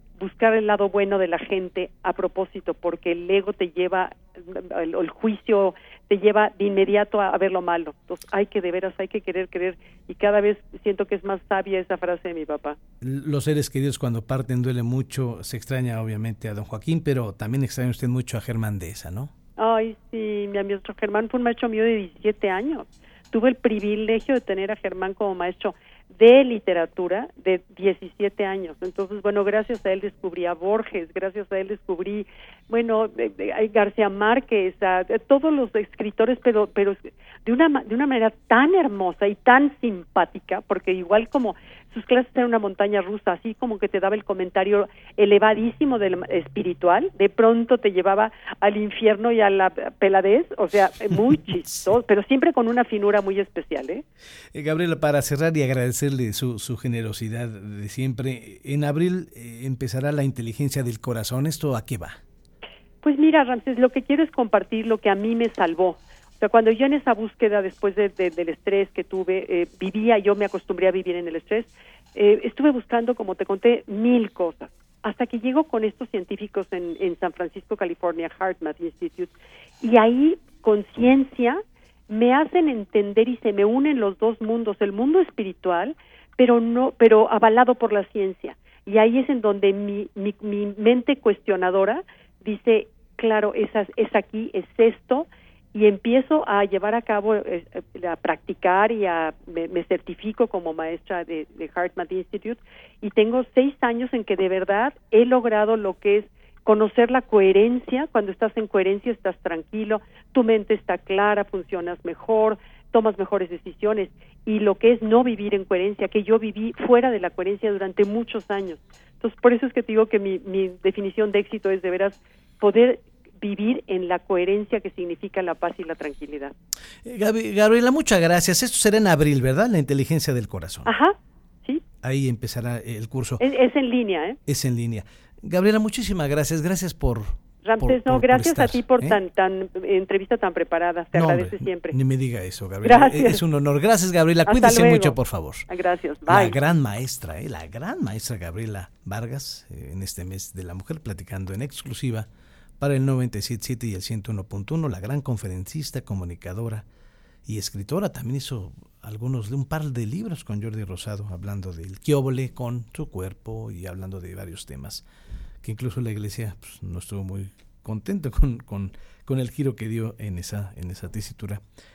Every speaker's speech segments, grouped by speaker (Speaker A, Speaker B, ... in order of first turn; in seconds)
Speaker A: 0.2-12.8, 19.6-54.0, 63.0-126.5, 130.8-131.1, 133.4-134.4, 137.6-141.9, 142.8-143.4, 144.4-146.6
Speaker B: 13.0-19.3, 54.5-62.2, 127.0-130.9, 132.0-133.4, 134.5-139.2, 141.1-145.7, 146.3-152.3, 152.8-156.8, 157.4-165.0, 165.6-171.6